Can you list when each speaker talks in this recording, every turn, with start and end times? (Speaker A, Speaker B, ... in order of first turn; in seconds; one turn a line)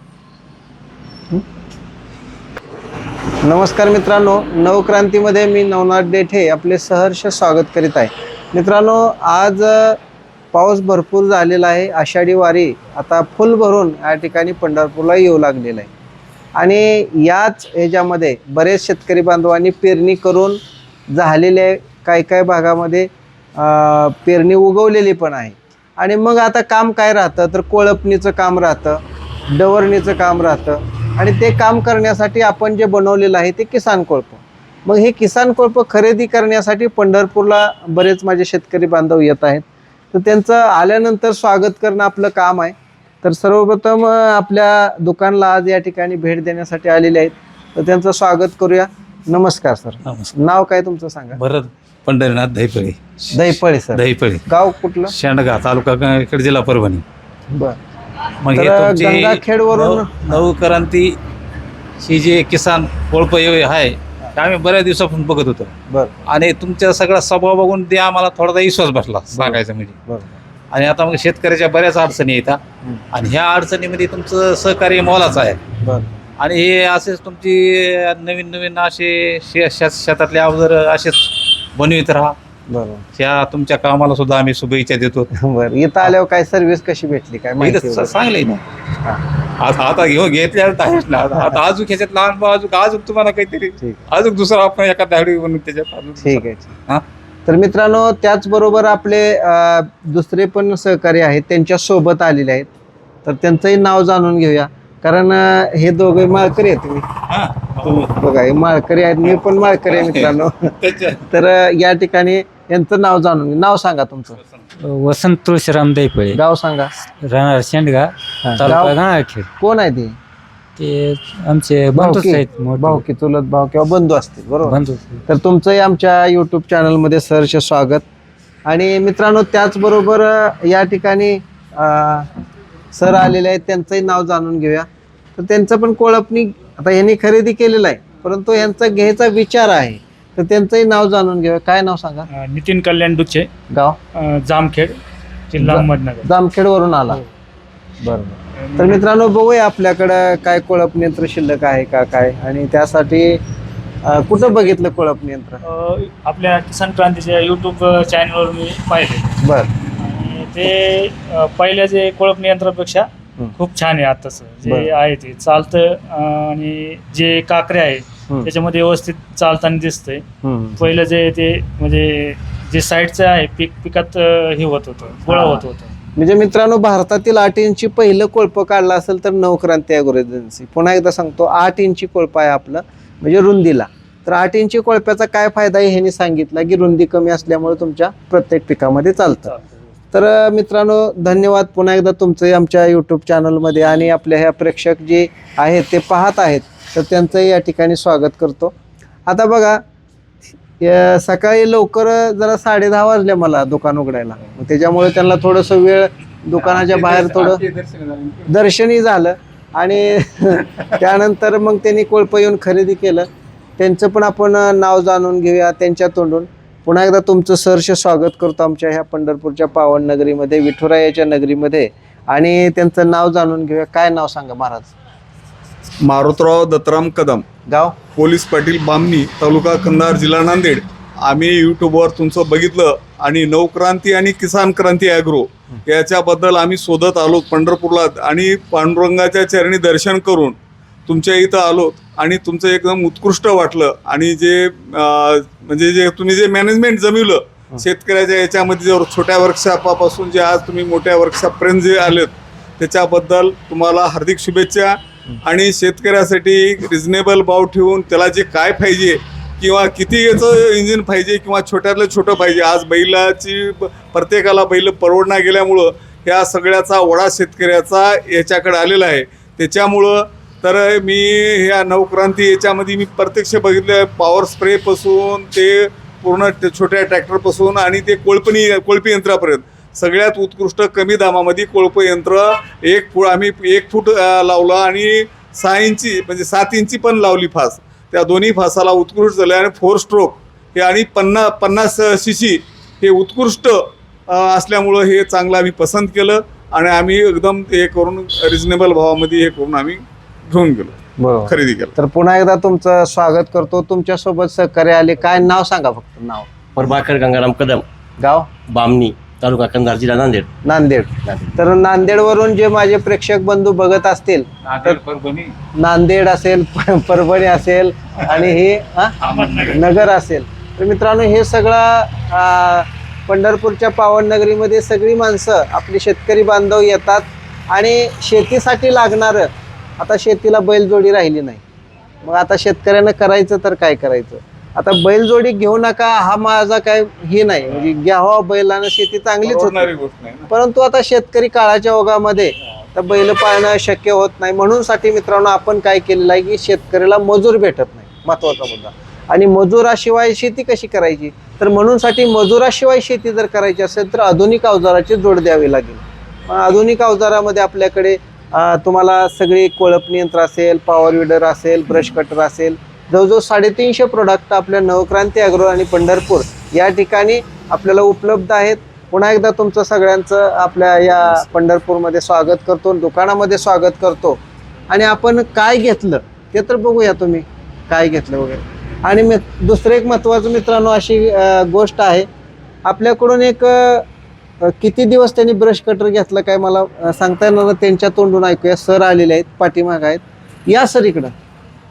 Speaker A: 3.4-10.0
Speaker A: 10.5-15.9
Speaker A: 16.6-20.6
Speaker A: 21.1-51.4
Speaker B: 50.0-50.3
Speaker B: 51.4-54.4
Speaker A: 53.3-55.1
Speaker B: 55.1-57.0
Speaker A: 57.5-57.8
Speaker B: 58.4-61.1
Speaker A: 58.5-60.5
Speaker B: 62.0-65.7
Speaker A: 65.9-66.2
Speaker B: 66.3-70.0
Speaker A: 69.3-70.4
Speaker B: 70.7-72.6
Speaker B: 73.1-75.6
Speaker A: 75.8-76.1
Speaker B: 76.4-82.3
Speaker A: 82.7-83.0
Speaker B: 83.2-85.3
Speaker A: 85.3-88.2
Speaker B: 87.6-88.6
Speaker B: 89.6-97.0
Speaker A: 96.2-96.7
Speaker A: 97.5-102.7
Speaker A: 103.2-107.1
Speaker B: 107.3-108.2
Speaker A: 108.1-110.8
Speaker B: 109.3-111.2
Speaker A: 111.3-114.4
Speaker C: 114.8-116.4
Speaker A: 116.3-116.9
Speaker C: 117.2-119.5
Speaker A: 118.4-119.0
Speaker A: 119.6-120.2
Speaker C: 120.8-123.0
Speaker A: 122.0-128.0
Speaker C: 124.6-125.2
Speaker A: 128.7-132.3
Speaker A: 132.9-142.3
Speaker D: 142.3-143.5
Speaker A: 143.7-144.0
Speaker D: 144.2-145.0
Speaker D: 145.5-146.3
Speaker A: 145.6-147.2
Speaker A: 148.0-153.4
Speaker D: 148.6-149.0
Speaker A: 154.1-155.6
Speaker D: 155.6-159.4
Speaker A: 159.4-159.7
Speaker D: 160.0-170.2
Speaker A: 164.6-164.9
Speaker A: 170.4-170.9
Speaker D: 170.8-175.9
Speaker A: 175.3-189.6
Speaker A: 190.1-198.8
Speaker A: 199.3-199.8
Speaker A: 200.8-207.6
Speaker B: 206.6-208.2
Speaker E: 207.2-208.4
Speaker A: 208.5-224.9
Speaker E: 226.0-227.4
Speaker A: 227.7-228.0
Speaker E: 228.1-301.9
Speaker A: 301.2-306.5
Speaker F: 306.8-307.9
Speaker A: 308.2-308.5
Speaker F: 308.7-310.5
Speaker A: 310.6-315.0
Speaker B: 314.6-315.5
Speaker A: 315.8-329.5
Speaker B: 319.2-319.8
Speaker A: 330.0-331.6
Speaker A: 332.2-339.9
Speaker E: 339.4-340.5
Speaker A: 340.5-382.3
Speaker A: 382.9-384.1
Speaker A: 384.6-391.3